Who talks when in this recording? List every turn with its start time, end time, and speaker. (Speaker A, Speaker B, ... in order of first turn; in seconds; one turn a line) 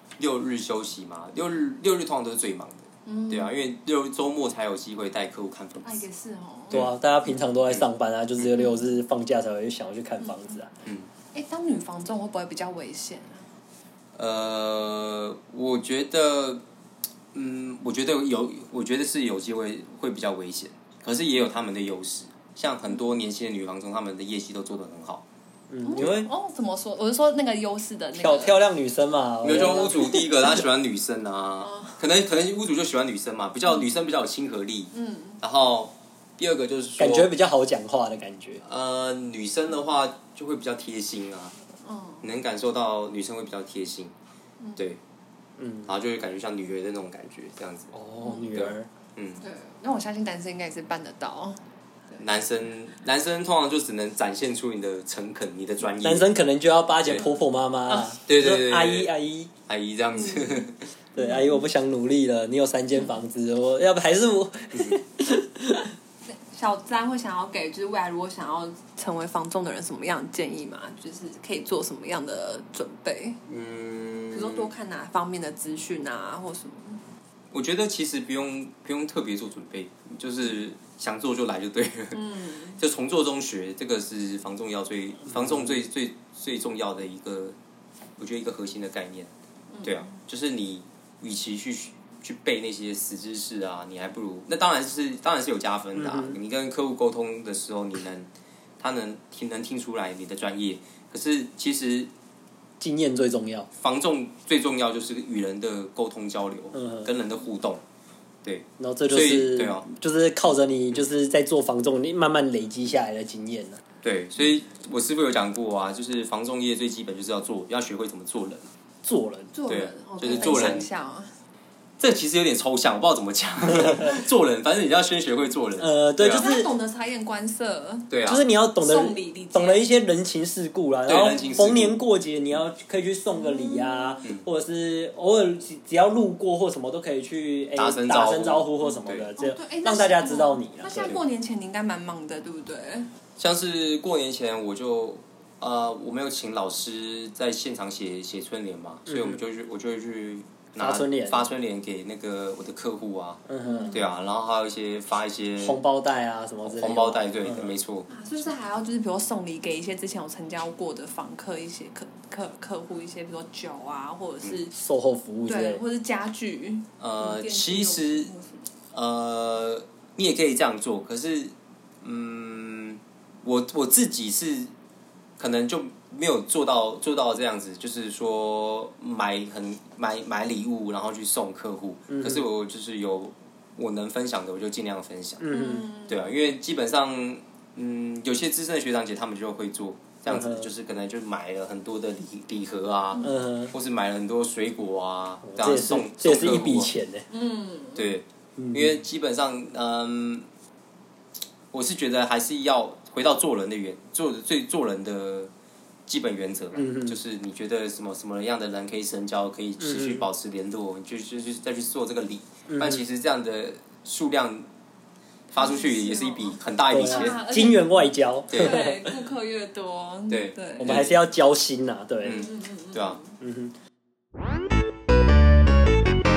Speaker A: 0.2-6.0
Speaker B: 3.0-3.5
Speaker B: 5.8-6.8
Speaker C: 6.7-10.7
Speaker B: 8.6-8.8
Speaker B: 10.2-10.5
Speaker B: 11.3-13.4
Speaker A: 14.2-16.6
Speaker A: 17.3-25.2
Speaker C: 25.7-26.3
Speaker B: 25.8-28.6
Speaker A: 25.9-26.2
Speaker C: 28.1-30.5
Speaker A: 29.4-37.3
Speaker B: 29.5-30.2
Speaker B: 31.6-32.0
Speaker B: 34.9-35.4
Speaker C: 37.0-38.6
Speaker A: 38.6-41.5
Speaker B: 41.8-42.2
Speaker A: 42.2-44.1
Speaker C: 45.6-45.9
Speaker A: 45.9-47.9
Speaker C: 47.9-48.9
Speaker A: 48.5-49.4
Speaker B: 49.4-51.6
Speaker A: 52.2-56.3
Speaker C: 56.0-59.5
Speaker A: 58.2-59.1
Speaker A: 59.7-60.9
Speaker B: 60.1-60.6
Speaker C: 61.1-65.9
Speaker B: 61.2-61.6
Speaker B: 66.3-73.4
Speaker A: 73.5-74.7
Speaker B: 74.3-77.0
Speaker A: 77.5-82.2
Speaker B: 82.1-82.8
Speaker A: 82.8-87.5
Speaker A: 88.2-89.3
Speaker B: 89.7-90.1
Speaker A: 89.8-102.1
Speaker C: 96.0-96.4
Speaker C: 102.8-103.7
Speaker A: 103.7-107.8
Speaker C: 106.7-107.1
Speaker A: 108.4-109.8
Speaker C: 108.8-113.8
Speaker A: 114.0-118.6
Speaker C: 119.0-119.5
Speaker B: 119.5-121.3
Speaker A: 119.7-120.9
Speaker C: 120.4-120.8
Speaker A: 122.0-126.5
Speaker C: 125.8-126.7
Speaker B: 126.2-128.1
Speaker A: 128.1-128.4
Speaker C: 128.2-141.2
Speaker B: 128.8-129.8
Speaker A: 131.1-132.0
Speaker B: 133.3-134.2
Speaker A: 137.8-139.3
Speaker B: 139.4-143.1
Speaker A: 143.4-155.8
Speaker C: 149.1-149.4
Speaker C: 150.8-151.5
Speaker C: 153.5-154.0
Speaker B: 153.6-154.1
Speaker C: 155.6-157.7
Speaker A: 156.6-158.1
Speaker B: 158.1-164.7
Speaker C: 164.7-165.8
Speaker B: 165.5-168.7
Speaker A: 167.0-168.3
Speaker A: 168.9-174.7
Speaker A: 175.4-185.4
Speaker C: 182.1-182.4
Speaker C: 185.4-185.9
Speaker B: 185.5-186.2
Speaker A: 186.1-196.9
Speaker C: 190.3-190.7
Speaker B: 193.1-193.4
Speaker C: 193.2-193.7
Speaker C: 195.4-197.2
Speaker B: 197.3-198.1
Speaker A: 197.9-200.5
Speaker C: 198.6-199.0
Speaker A: 201.7-205.5
Speaker A: 206.1-214.7
Speaker C: 206.7-207.2
Speaker C: 209.8-210.3
Speaker C: 212.7-213.0
Speaker A: 215.5-217.4
Speaker B: 215.5-221.0
Speaker C: 216.9-219.1
Speaker A: 218.5-218.8
Speaker A: 220.3-221.1
Speaker C: 220.8-222.4
Speaker A: 222.2-223.2
Speaker B: 222.3-223.3
Speaker C: 223.4-223.7